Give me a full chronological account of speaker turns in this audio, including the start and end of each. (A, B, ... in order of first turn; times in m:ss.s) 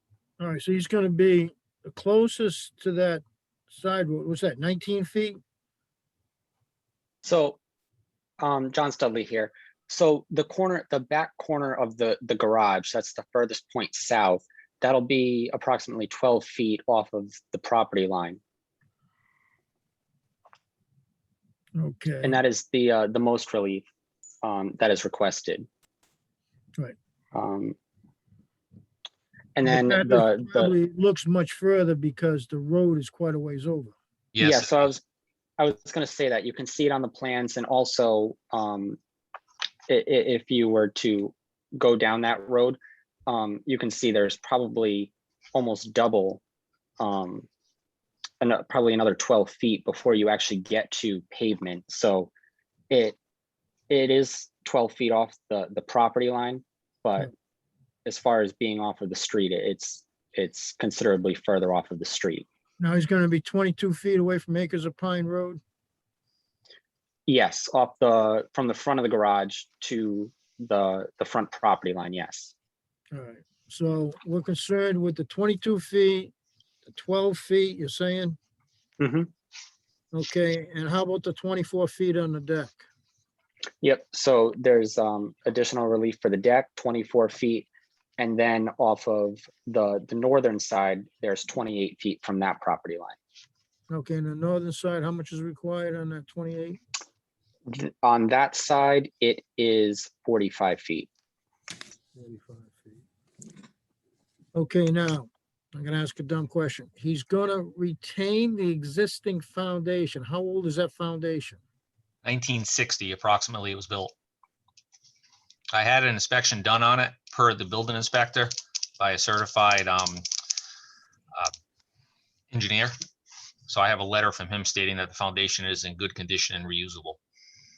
0:00.4-0:05.4 A
0:07.2-0:07.6 B
0:08.4-0:18.4 B
0:21.8-0:22.4 A
0:22.2-0:23.8 B
0:24.4-0:25.7 B
0:27.3-0:27.8 B
0:29.6-0:30.7 B
0:29.6-0:33.9 A
0:34.3-0:34.9 C
0:34.4-0:35.0 B
0:35.6-0:39.0 B
0:39.9-0:46.4 B
0:47.0-0:47.4 B
0:48.4-0:52.3 B
0:52.9-0:53.2 B
0:53.9-0:57.3 B
0:58.0-1:02.4 B
1:02.8-1:05.6 A
1:07.3-1:12.5 B
1:13.1-1:16.3 A
1:16.8-1:18.4 A
1:19.0-1:19.3 B
1:20.1-1:22.8 A
1:23.8-1:33.2 B
1:33.9-1:36.8 A
1:37.7-1:41.1 B
1:42.1-1:43.0 A
1:44.5-1:51.6 A
1:52.2-1:54.1 C
1:55.7-2:00.2 C
2:02.5-2:02.9 C
2:03.7-2:07.2 C